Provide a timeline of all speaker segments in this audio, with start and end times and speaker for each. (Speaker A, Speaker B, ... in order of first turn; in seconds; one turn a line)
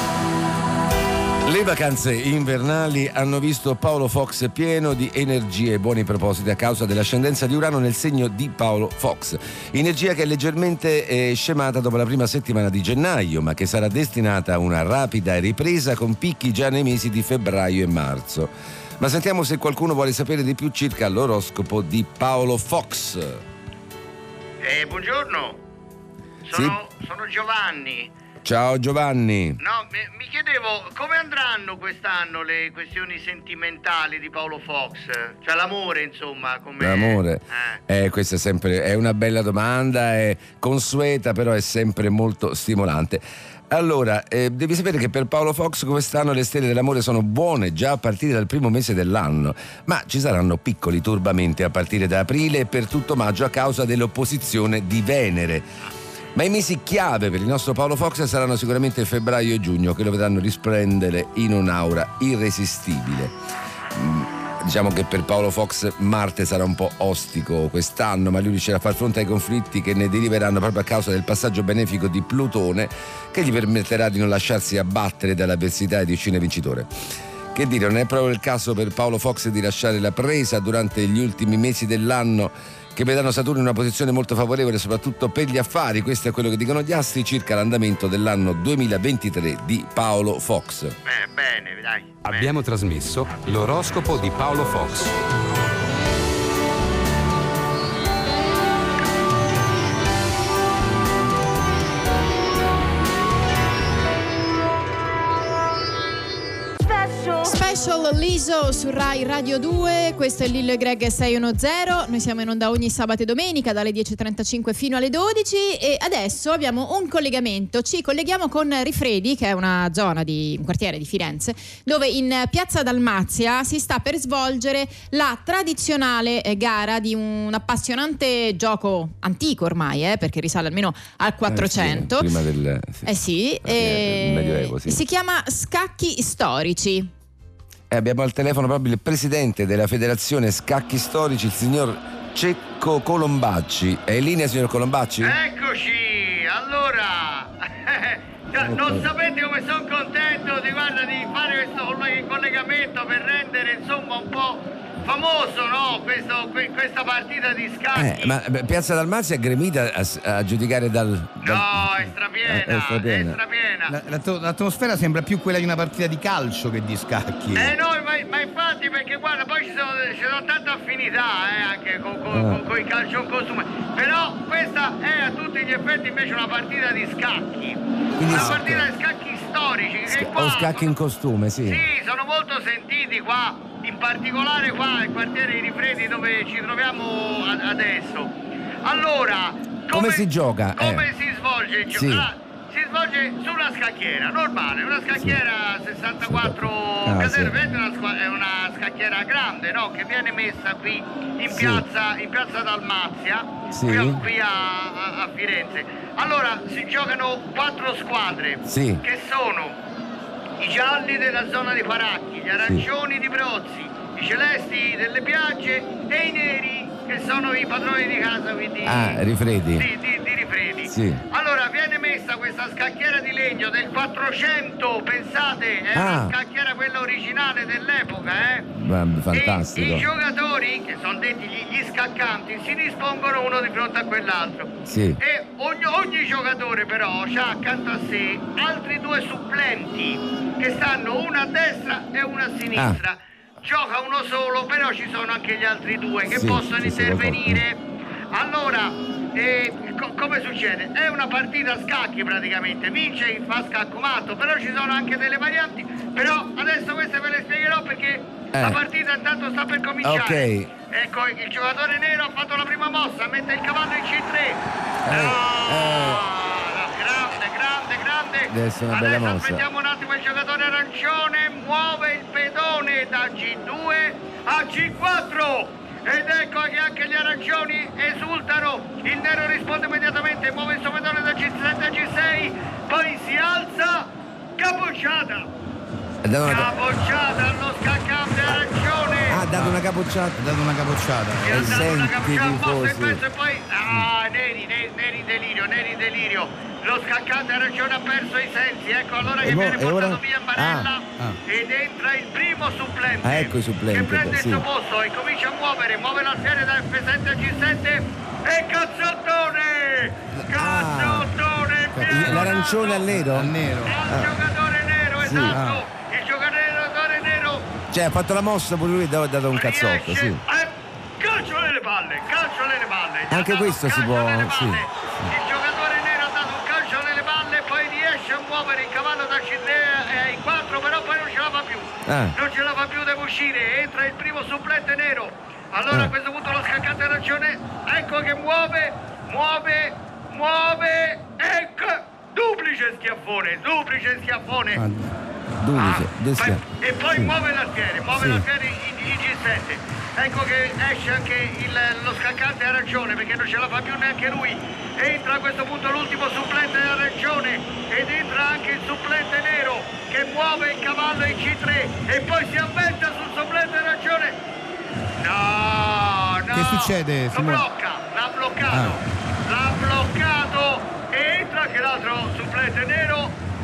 Speaker A: 1.4-23.4
Speaker B: 24.6-25.6
Speaker B: 26.4-28.1
Speaker A: 28.4-29.6
Speaker B: 29.6-37.8
Speaker A: 36.8-55.7
Speaker A: 56.3-63.3
Speaker A: 63.9-76.9
Speaker A: 77.5-91.0
Speaker B: 91.1-92.5
Speaker C: 92.2-95.2
Speaker D: 107.4-132.3
Speaker A: 131.5-133.1
Speaker D: 133.1-137.1
Speaker A: 133.6-135.0
Speaker A: 137.9-145.4
Speaker B: 145.2-158.3
Speaker A: 148.6-149.1
Speaker A: 157.9-163.4
Speaker B: 161.4-163.9
Speaker E: 163.9-167.8
Speaker B: 167.5-180.9
Speaker A: 172.3-172.6
Speaker A: 178.2-178.9
Speaker A: 180.1-181.8
Speaker B: 181.6-209.8
Speaker A: 189.9-191.1
Speaker A: 191.9-192.3
Speaker A: 196.2-197.8
Speaker A: 201.5-201.8
Speaker A: 203.7-204.2
Speaker A: 208.7-209.0
Speaker B: 210.6-219.2
Speaker A: 218.8-219.9
Speaker B: 219.7-228.7
Speaker A: 220.9-221.2
Speaker A: 225.9-226.3
Speaker A: 228.7-230.1
Speaker B: 229.3-247.8
Speaker A: 234.9-235.2
Speaker A: 242.7-243.0
Speaker A: 246.3-247.7
Speaker B: 248.3-285.5
Speaker A: 258.5-258.8
Speaker A: 260.0-260.7
Speaker A: 265.1-266.2
Speaker A: 268.5-269.6
Speaker A: 286.2-286.7
Speaker B: 286.4-289.5
Speaker A: 289.3-290.6
Speaker E: 289.5-289.8
Speaker E: 290.4-291.9
Speaker B: 291.4-313.1
Speaker A: 291.5-293.2
Speaker A: 299.4-300.9
Speaker A: 303.2-304.7
Speaker A: 310.4-311.3
Speaker E: 311.9-314.0
Speaker A: 312.1-313.5
Speaker B: 313.9-317.7
Speaker A: 314.1-314.4
Speaker A: 315.2-315.6
Speaker E: 315.5-315.9
Speaker A: 317.9-320.4
Speaker B: 319.5-344.8
Speaker A: 323.3-325.3
Speaker A: 332.1-332.4
Speaker E: 344.8-345.1
Speaker A: 345.6-347.3
Speaker B: 345.8-364.4
Speaker E: 348.1-348.4
Speaker B: 365.2-373.4
Speaker E: 366.5-367.7
Speaker E: 368.7-369.0